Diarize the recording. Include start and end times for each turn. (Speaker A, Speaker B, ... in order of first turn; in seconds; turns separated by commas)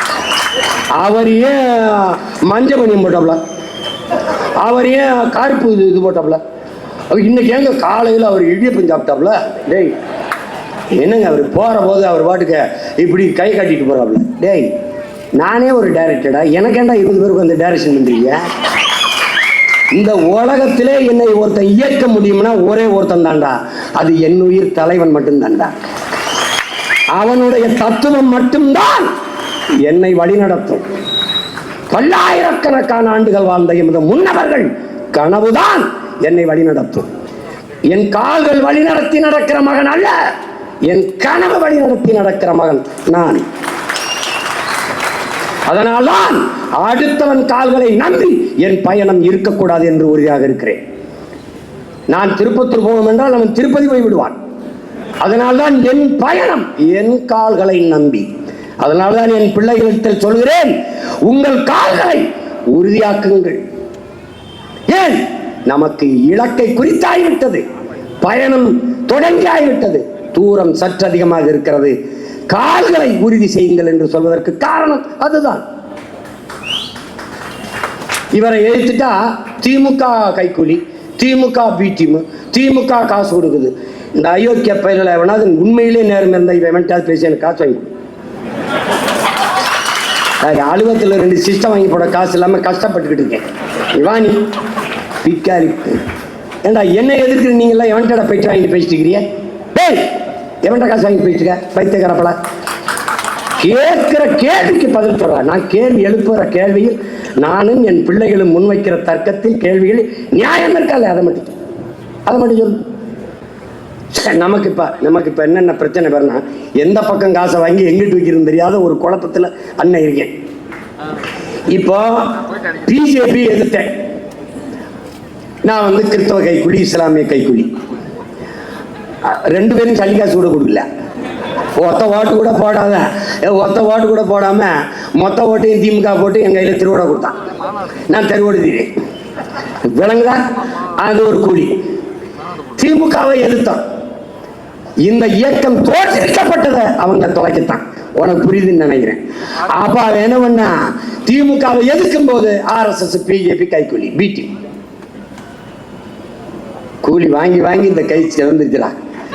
Speaker A: 1.0-3.4, Speaker A: 4.6-6.4, Speaker A: 7.1-10.0, Speaker A: 10.9-14.7, Speaker A: 15.4-18.4, Speaker A: 19.9-25.7, Speaker A: 27.2-29.1, Speaker A: 29.8-30.8, Speaker A: 31.9-37.1, Speaker A: 37.9-40.2, Speaker A: 40.9-43.4, Speaker A: 45.7-50.8, Speaker A: 52.1-54.4, Speaker A: 55.2-58.3, Speaker A: 58.8-60.7, Speaker A: 61.3-63.6, Speaker A: 64.9-67.6, Speaker A: 68.2-71.9, Speaker A: 72.5-75.6, Speaker A: 78.3-87.9, Speaker A: 90.4-94.4, Speaker A: 95.2-96.0, Speaker A: 96.6-100.1, Speaker A: 100.6-102.4, Speaker A: 103.6-111.5, Speaker A: 112.2-112.8, Speaker A: 114.1-120.3, Speaker A: 121.7-123.9, Speaker A: 125.7-127.7, Speaker A: 129.3-130.9, Speaker A: 131.8-137.4, Speaker A: 138.1-138.9, Speaker A: 139.9-141.8, Speaker A: 142.7-143.8, Speaker A: 145.0-154.5, Speaker A: 157.0-158.9